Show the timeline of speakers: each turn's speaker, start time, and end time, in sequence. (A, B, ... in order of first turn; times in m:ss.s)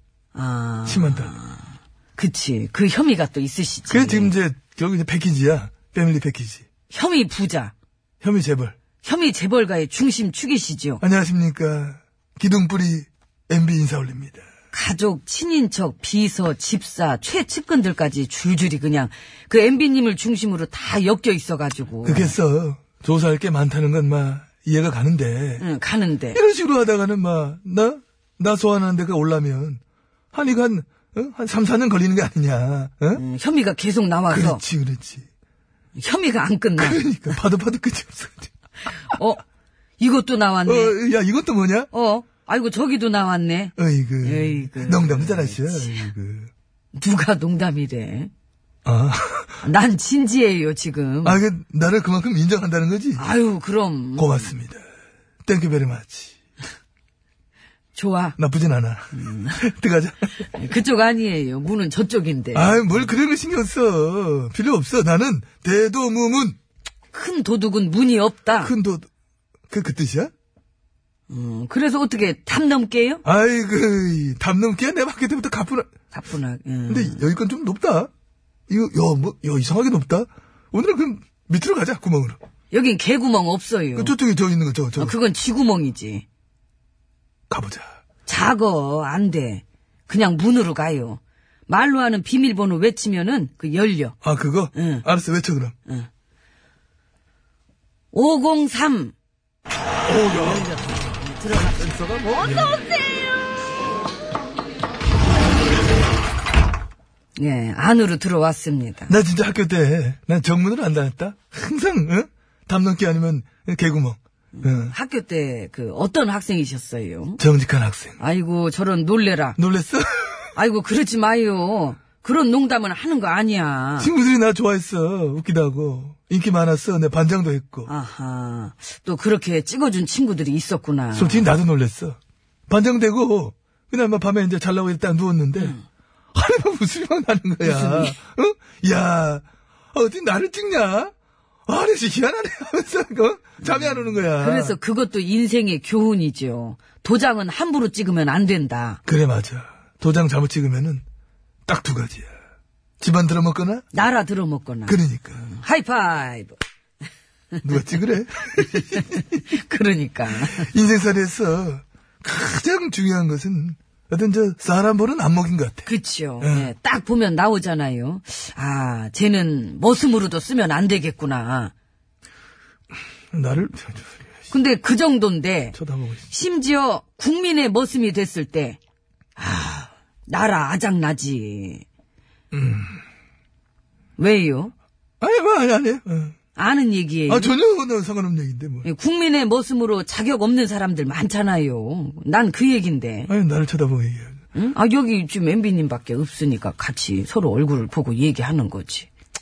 0:00.3-0:01.6 A
0:00.8-0:01.3 B
0:02.2-0:04.3 A
0:03.9-0:06.6 B
0:06.9-0:07.7 A
0:08.2-0:08.8 B
0:09.0-0:11.0 A
0:11.0-0:14.4 B
0:14.7-0:22.4 A
0:22.0-0:25.6 B
0:25.6-0:26.4 A
0:26.3-0:29.8 B
0:30.3-0:33.2 B
0:33.2-0:34.6 A
0:34.3-0:35.2 B
0:36.0-0:37.4 A
0:36.8-0:38.5 B
0:39.0-0:39.4 A
0:40.0-0:41.0 A
0:40.6-0:41.9 B
0:41.9-0:46.1 A
0:43.8-0:46.5 B
0:46.9-0:48.3 A
0:48.8-0:49.6 B
0:49.6-0:51.4 A
0:51.2-0:53.2 B
0:53.2-0:54.5 A
0:54.2-0:54.8 B
0:55.4-0:56.3 B
0:57.9-0:58.4 A
0:58.4-1:00.4 B
0:59.1-0:59.6 A
1:00.5-1:03.1 A
1:02.5-1:06.6 B
1:07.1-1:08.7 A
1:08.6-1:09.1 B
1:09.7-1:10.3 B
1:11.3-1:13.2 A
1:13.2-1:15.9 B
1:16.1-1:17.2 A
1:16.9-1:18.1 B
1:18.7-1:22.4 B
1:22.7-1:24.2 A
1:24.0-1:25.2 B
1:24.9-1:26.2 A
1:27.5-1:27.8 B
1:28.2-1:34.2 A
1:34.2-1:35.7 B
1:34.7-1:35.0 A
1:38.1-1:39.1 A
1:40.0-1:40.8 B
1:40.4-1:43.3 A
1:42.4-1:42.8 B
1:47.4-1:49.1 A
1:49.1-1:54.9 B
1:54.6-1:57.4 A
1:57.4-1:58.2 B
1:58.2-1:59.6 A
1:59.6-2:00.5 B
2:00.6-2:04.1 A
2:04.0-2:07.9 B
2:07.9-2:11.5 A
2:11.1-2:15.7 B
2:15.6-2:15.8 A
2:16.3-2:21.1 B
2:17.6-2:18.2 A
2:21.7-2:24.7 B
2:23.6-2:29.0 A
2:29.0-2:31.0 B
2:31.7-2:32.3 B
2:33.0-2:33.8 B
2:33.9-2:36.6 A
2:34.9-2:35.4 B
2:37.6-2:39.4 B
2:38.6-2:40.7 A
2:40.4-2:45.9 B
2:45.8-2:51.7 A
2:46.4-2:46.7 B
2:53.3-2:54.3 B
2:54.5-2:55.8 A
2:55.7-2:56.2 B
2:56.3-2:58.8 A
2:59.4-3:01.8 A
3:02.5-3:03.0 B
3:04.2-3:04.7 A
3:05.2-3:06.4 B
3:06.6-3:07.6 A
3:07.3-3:08.8 B
3:08.8-3:13.3 A
3:13.3-3:14.4 B
3:14.5-3:19.1 A